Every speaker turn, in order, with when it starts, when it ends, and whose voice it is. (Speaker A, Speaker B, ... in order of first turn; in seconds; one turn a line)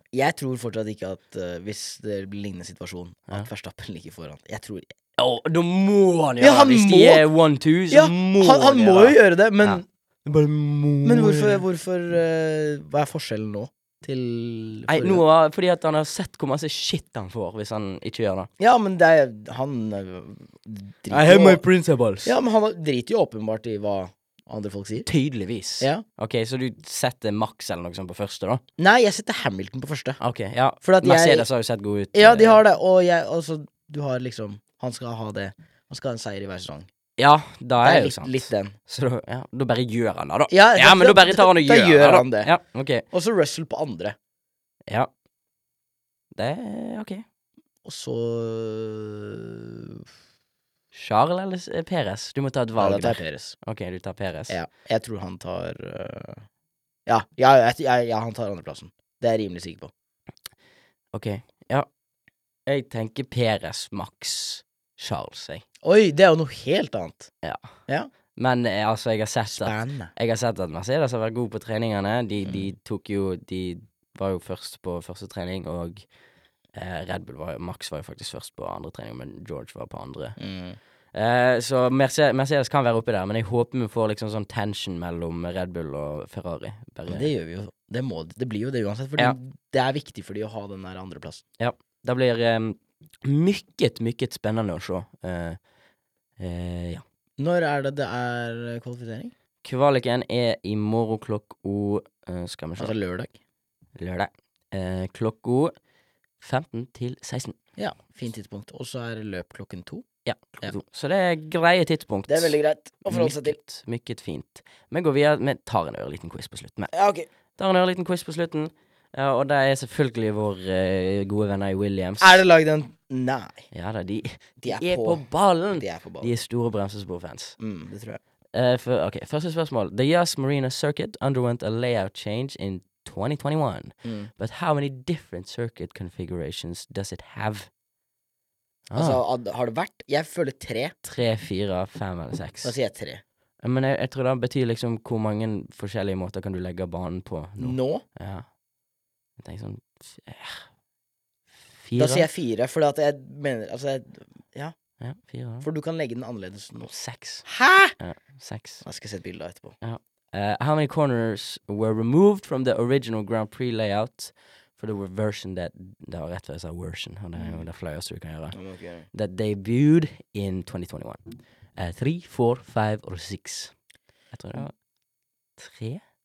Speaker A: 0.1-4.9
Speaker B: 5.2-11.6
Speaker A: 6.4-7.2
Speaker A: 7.9-9.8
Speaker A: 11.0-15.2
Speaker B: 14.9-18.5
Speaker A: 18.6-21.6
Speaker B: 21.1-22.3
Speaker A: 22.2-25.1
Speaker B: 25.1-28.6
Speaker A: 25.8-26.1
Speaker A: 28.8-30.2
Speaker B: 30.2-32.6
Speaker A: 30.8-31.5
Speaker A: 32.1-36.9
Speaker B: 37.2-43.1
Speaker A: 37.8-38.8
Speaker A: 40.5-42.5
Speaker A: 43.1-44.2
Speaker B: 46.4-47.2
Speaker A: 47.9-50.0
Speaker B: 50.9-54.6
Speaker A: 52.8-53.6
Speaker A: 54.5-56.5
Speaker A: 57.1-59.9
Speaker B: 61.1-61.9
Speaker B: 62.7-65.6
Speaker A: 65.8-67.3
Speaker B: 67.4-67.7
Speaker B: 68.3-76.1
Speaker A: 69.5-70.1
Speaker B: 76.7-80.4
Speaker A: 80.4-80.8
Speaker B: 81.1-87.3
Speaker A: 87.1-91.4
Speaker B: 91.6-95.6
Speaker B: 96.4-97.0
Speaker A: 97.4-99.3
Speaker B: 99.6-103.0
Speaker A: 102.8-103.3
Speaker B: 104.0-105.8
Speaker B: 106.4-107.6
Speaker A: 107.8-110.1
Speaker B: 110.2-116.9
Speaker A: 112.3-113.6
Speaker A: 116.9-117.3
Speaker B: 117.5-122.4
Speaker A: 122.2-123.7
Speaker B: 123.7-127.6
Speaker A: 124.6-126.3
Speaker A: 127.6-128.2
Speaker B: 128.5-137.7
Speaker A: 134.0-134.3
Speaker B: 138.9-139.2
Speaker A: 138.9-140.9
Speaker B: 141.0-142.8
Speaker A: 142.6-143.2
Speaker B: 143.6-148.5
Speaker A: 147.6-148.0
Speaker B: 149.4-150.7
Speaker B: 151.8-152.3
Speaker A: 151.9-154.8
Speaker B: 155.0-155.7
Speaker A: 155.6-156.9
Speaker B: 156.8-158.8
Speaker A: 157.4-157.9
Speaker A: 158.8-159.8
Speaker B: 159.8-168.6
Speaker A: 167.4-167.7
Speaker A: 168.5-169.1
Speaker B: 169.1-173.8
Speaker B: 174.3-174.9
Speaker B: 175.6-176.0